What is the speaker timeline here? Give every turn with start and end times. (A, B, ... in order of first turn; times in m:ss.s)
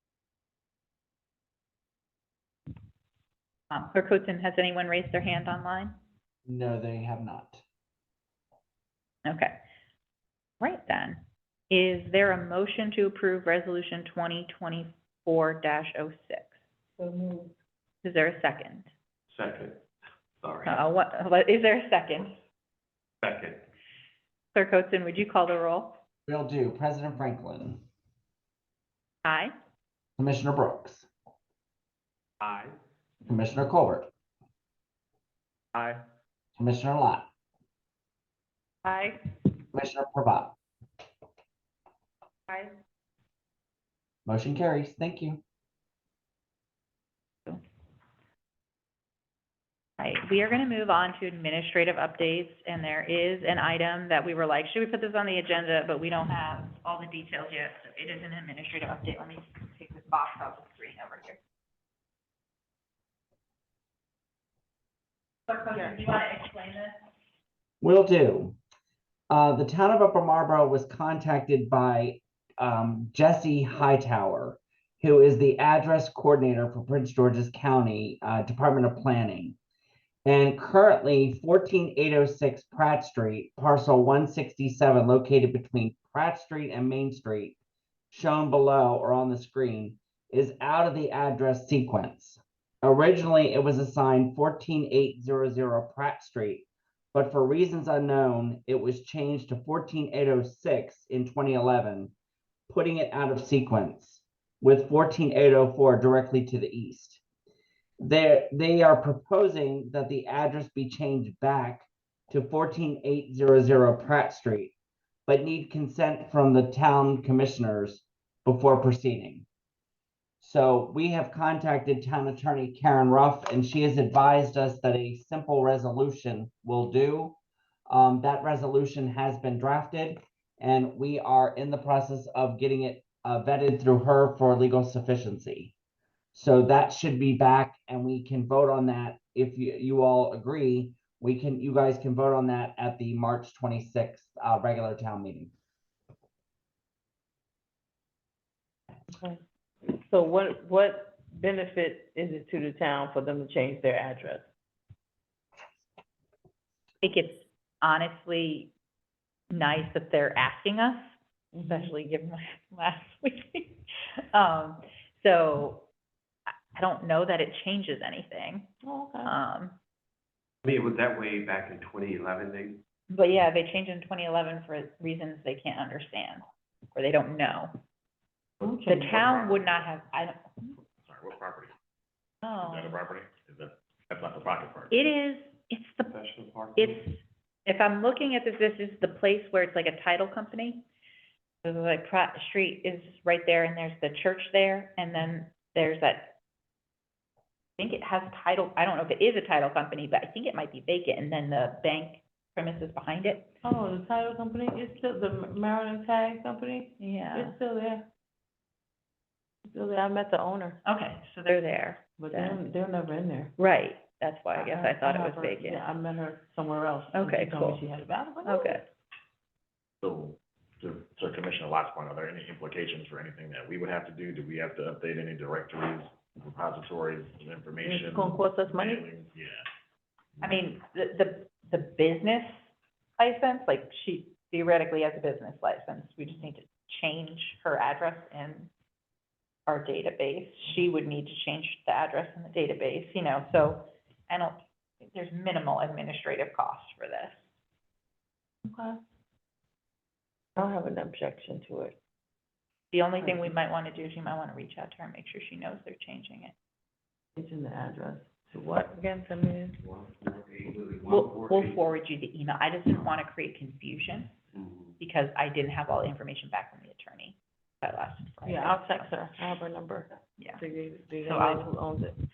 0:03.7-0:06.0 A
0:06.5-0:07.6 B
0:09.2-0:09.5 A
0:10.6-0:16.6 A
0:17.0-0:17.5 C
0:18.0-0:18.9 A
0:19.3-0:19.8 D
0:20.4-0:20.8 D
0:20.6-0:22.3 A
0:23.2-0:23.6 D
0:24.5-0:26.0 A
0:26.3-0:27.8 B
0:29.2-0:29.5 A
0:30.2-0:31.1 B
0:32.4-0:32.7 D
0:33.2-0:34.1 B
0:36.6-0:37.3 B
0:38.8-0:39.2 C
0:39.7-0:40.6 B
0:44.3-0:45.4 B
0:50.0-1:01.4 A
1:05.5-1:07.0 A
1:07.8-1:08.6 B
1:09.3-1:19.6 B
1:20.2-1:27.6 B
1:28.1-1:42.1 B
1:42.7-1:47.2 B
1:48.0-1:54.8 B
1:55.3-1:59.5 B
2:00.4-2:07.4 B
2:07.9-2:15.7 B
2:16.3-2:25.5 B
2:29.1-2:34.5 C
2:37.0-2:38.7 A
2:39.5-2:41.1 A
2:41.5-2:41.9 C
2:41.6-2:43.8 A
2:44.3-2:45.9 A
2:46.8-2:48.7 A
2:48.8-2:49.3 C
2:49.2-2:49.8 A
2:50.6-2:52.8 D
2:53.1-2:56.4 A
2:57.0-2:57.7 A
2:58.6-2:59.2 C
2:58.9-3:00.7 A
2:59.1-2:59.8 E
3:01.1-3:01.7 E
3:02.4-3:03.0 A
3:02.6-3:04.9 E
3:04.9-3:06.1 A
3:06.1-3:07.0 D
3:06.8-3:07.1 A
3:07.7-3:10.9 A
3:11.6-3:16.4 A
3:17.8-3:23.5 A
3:23.6-3:28.0 C
3:27.0-3:27.6 A
3:29.7-3:30.8 C
3:30.8-3:32.6 A
3:32.2-3:33.5 C
3:33.6-3:35.8 A
3:34.6-3:38.8 C
3:37.1-3:37.8 A
3:38.4-3:38.8 A
3:40.0-3:49.7 E
3:47.8-3:49.1 C
3:50.4-3:52.6 A
3:53.2-3:58.7 A
3:59.7-4:07.4 A
4:08.6-4:09.0 C
4:10.6-4:12.0 C
4:12.9-4:16.5 A
4:17.4-4:19.8 C
4:20.0-4:21.8 D
4:21.1-4:24.3 A
4:25.0-4:29.1 A
4:28.4-4:32.2 C
4:31.2-4:31.7 A